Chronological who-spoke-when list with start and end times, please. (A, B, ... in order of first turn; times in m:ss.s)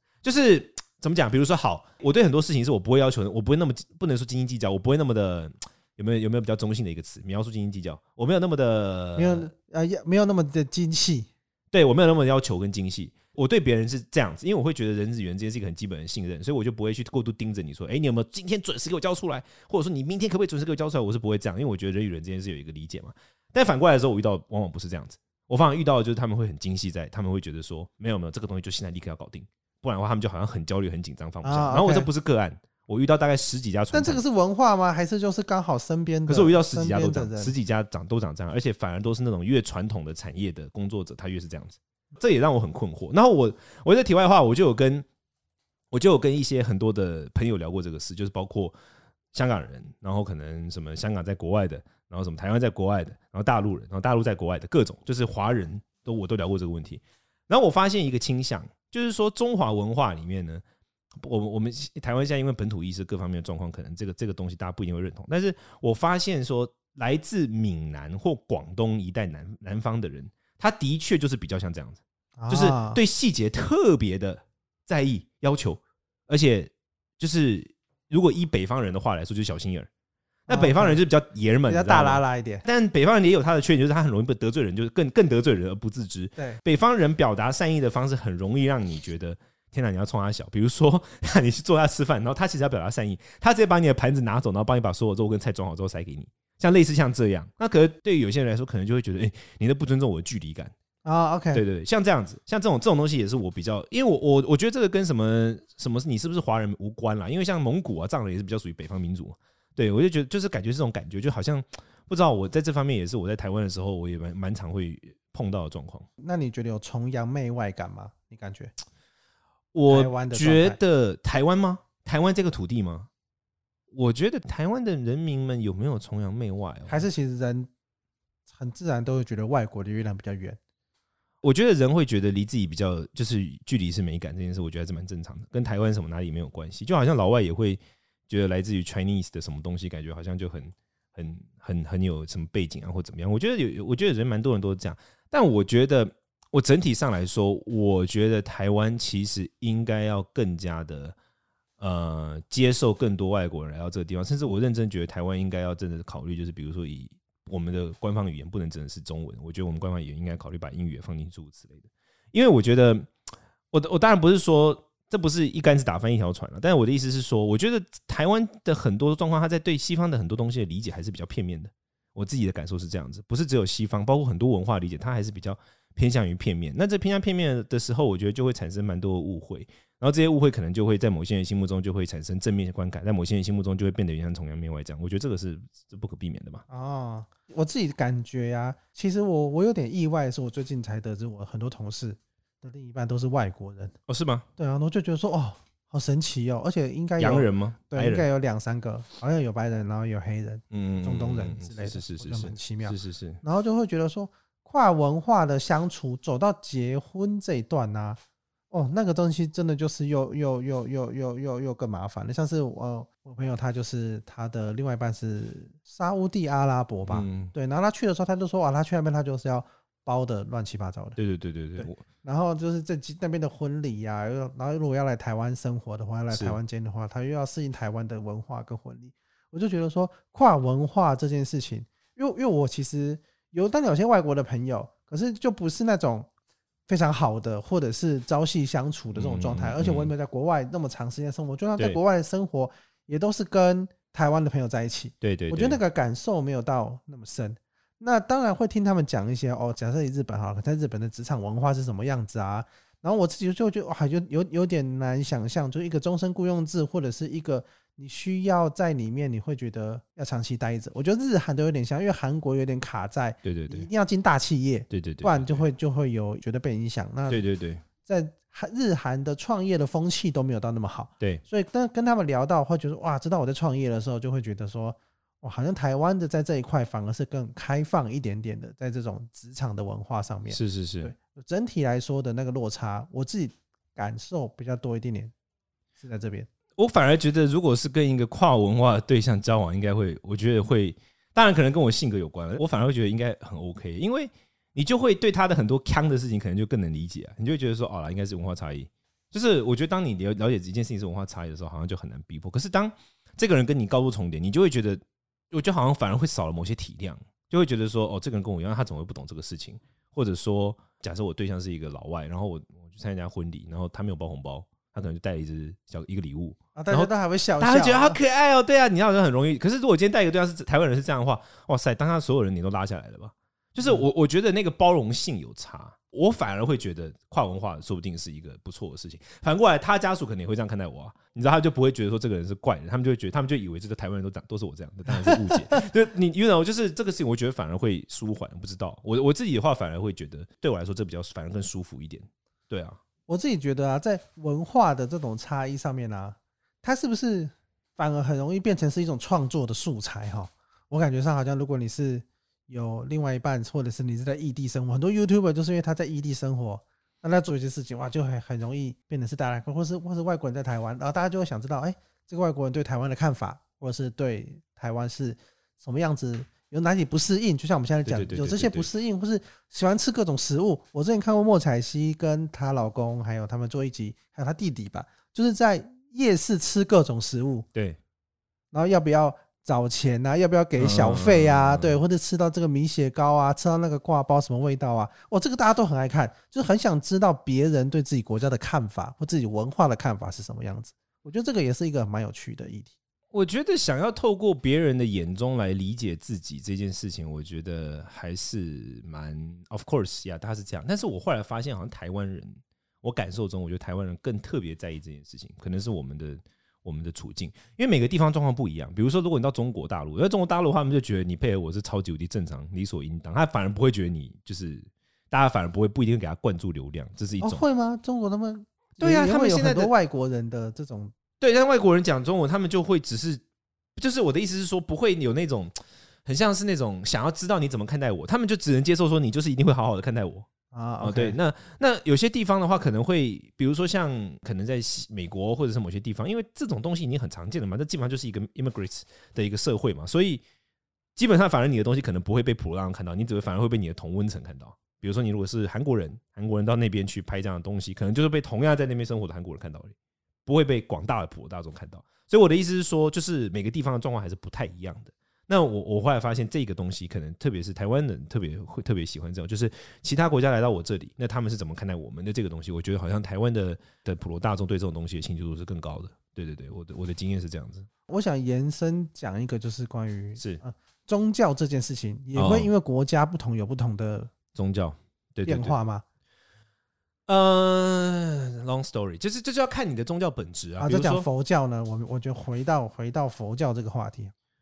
0:00.2-0:09.5 A
0:09.2-0:11.3 B
0:11.7-0:34.2 A
0:31.4-0:32.1 B
0:33.9-0:37.5 B
0:36.3-0:45.0 A
0:45.9-0:48.7 A
0:49.3-1:00.6 A
1:01.2-1:19.9 A
1:12.4-1:13.0 B
1:20.5-1:21.0 B
1:20.5-1:40.7 A
1:21.7-1:22.6 B
1:41.0-1:41.6 B
1:41.5-1:56.1 A
1:56.2-1:58.7 B
1:59.7-2:03.1 A
1:59.9-2:00.8 B
2:03.9-2:07.0 A
2:06.9-2:07.7 B
2:08.5-2:10.6 B
2:11.4-2:31.2 A
2:31.8-2:43.1 A
2:43.7-3:06.6 A
3:06.7-3:13.9 B
3:14.1-3:14.4 A
3:14.6-3:28.2 B
3:17.2-3:18.2 A
3:20.7-3:23.4 A
3:28.7-3:41.2 B
3:37.1-3:37.5 A
3:41.2-3:42.0 A
3:41.8-3:56.3 B
3:46.3-3:46.6 A
3:56.9-4:27.4 B
3:59.1-4:00.1 A
4:05.2-4:05.8 A
4:23.4-4:23.9 A
4:24.9-4:25.6 A
4:27.3-4:27.8 A
4:28.0-4:45.3 B
4:40.5-4:41.1 A
4:46.0-4:46.5 B
4:46.8-5:43.0 A
5:16.7-5:18.2 B
5:35.1-5:35.8 B
5:43.3-6:17.6 B
6:08.0-6:08.9 A
6:18.7-6:32.9 B
6:20.8-6:22.0 A
6:33.3-6:57.6 A
6:57.4-7:01.1 B
6:59.0-6:59.9 A
7:01.4-7:03.4 A
7:04.0-7:10.5 A
7:10.7-7:11.4 B
7:11.0-7:20.4 A
7:21.2-7:29.9 A
7:30.4-7:47.9 A
7:48.1-7:54.3 B
7:52.3-7:52.7 A
7:54.5-7:55.7 A
7:55.4-7:56.0 B
7:57.3-8:01.3 A
8:00.8-8:04.3 B